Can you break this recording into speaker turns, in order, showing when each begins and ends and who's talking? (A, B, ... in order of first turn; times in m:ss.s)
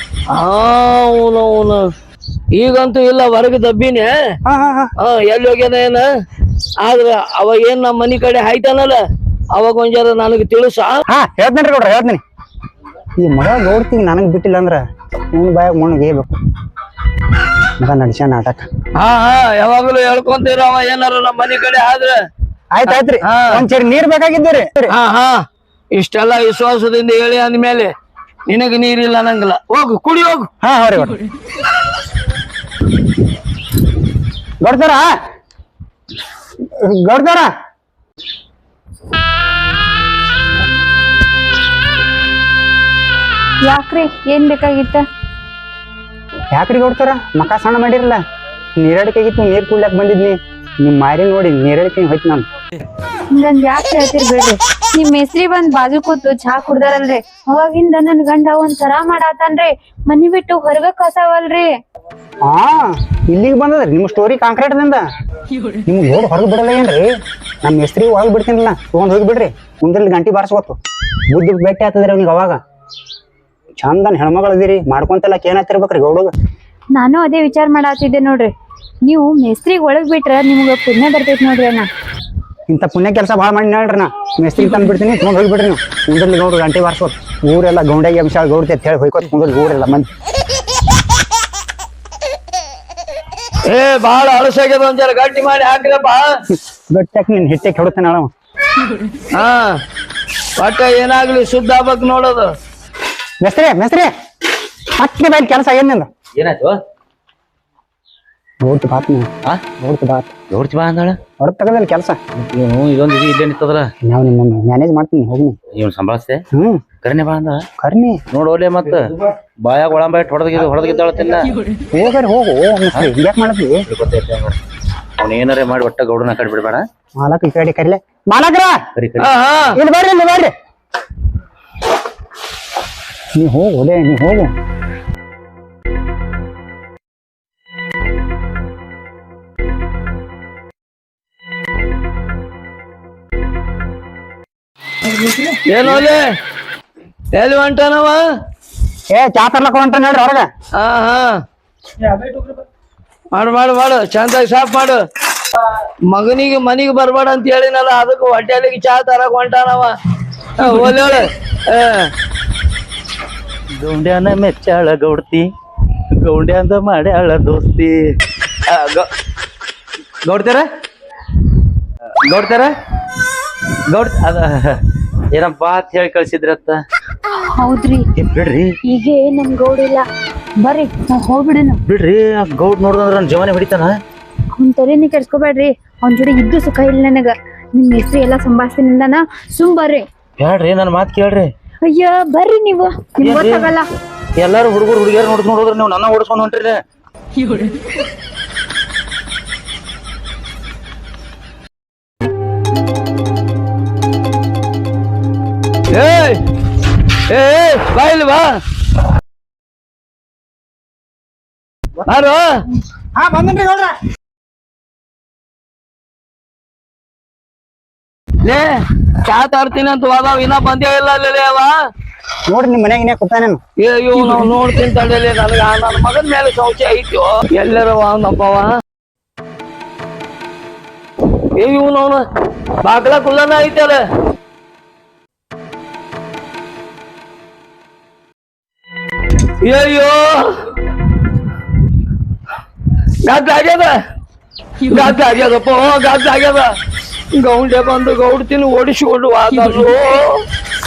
0:00.3-0:01.9 A
0:02.5-0:04.4 A
0:04.5-0:04.9 B
0:05.0-0:06.1 A
0:06.8-0:09.0 A
0:09.5-0:11.0 A
0:11.1-0:12.2 B
0:13.2-0:16.4 B
0:17.8-0:18.7 B
0:19.0-0:22.2 A
0:22.7-0:25.0 B
0:22.9-0:23.6 A
0:24.9-0:27.9 A
0:28.5-0:30.5 A
0:30.6-0:31.2 B
0:34.6-0:35.1 B
0:36.8-0:37.5 B
0:43.6-0:45.0 C
0:46.5-0:48.2 B
0:48.8-0:52.4 B
0:53.3-1:01.7 C
1:02.5-1:05.0 B
1:05.9-1:07.1 B
1:07.6-1:10.8 B
1:11.3-1:12.6 B
1:13.8-1:16.3 B
1:16.9-1:18.5 C
1:19.0-1:21.9 C
1:22.7-1:30.1 B
1:33.7-1:36.3 A
1:36.5-1:38.3 B
1:39.3-1:39.8 A
1:40.6-1:42.5 A
1:43.4-1:44.1 B
1:45.0-1:46.1 B
1:46.4-1:46.8 D
1:48.6-1:49.3 B
1:49.8-1:50.3 B
1:50.5-1:51.2 D
1:51.4-1:52.2 B
1:52.4-1:53.9 D
1:54.0-1:55.6 B
1:55.7-1:56.4 D
1:56.5-1:56.8 B
1:57.0-1:57.7 D
1:57.8-1:58.2 B
1:58.3-1:59.0 D
1:59.6-2:01.6 D
2:01.9-2:03.8 B
2:03.9-2:04.6 D
2:05.2-2:06.8 D
2:07.2-2:08.8 B
2:09.0-2:09.3 D
2:09.2-2:09.8 A
2:09.8-2:10.5 B
2:13.4-2:14.5 B
2:25.7-2:26.2 A
2:27.3-2:28.2 A
2:29.1-2:30.5 B
2:30.7-2:31.4 A
2:33.3-2:35.0 A
2:36.1-2:40.0 A
2:40.6-2:42.1 A
2:43.8-2:45.5 D
2:46.1-2:48.0 D
2:48.7-2:49.1 D
2:50.2-2:50.7 D
2:52.3-2:52.7 D
2:53.9-2:54.8 D
2:55.3-2:56.8 D
2:57.4-2:58.1 C
2:58.2-2:58.7 D
2:58.8-3:00.1 C
3:00.6-3:01.8 C
3:01.9-3:04.0 D
3:04.6-3:10.0 C
3:10.4-3:11.5 D
3:11.8-3:13.8 C
3:13.2-3:13.7 D
3:14.4-3:16.8 D
3:25.9-3:26.4 A
3:27.3-3:28.6 A
3:32.1-3:32.6 A
3:33.2-3:34.0 B
3:38.4-3:41.8 A
3:42.5-3:43.6 B
3:43.8-3:48.8 A
3:51.6-3:52.2 A
3:52.8-3:54.0 A
3:59.6-4:00.6 A
4:03.2-4:04.0 A
4:04.9-4:06.8 A
4:07.3-4:10.4 A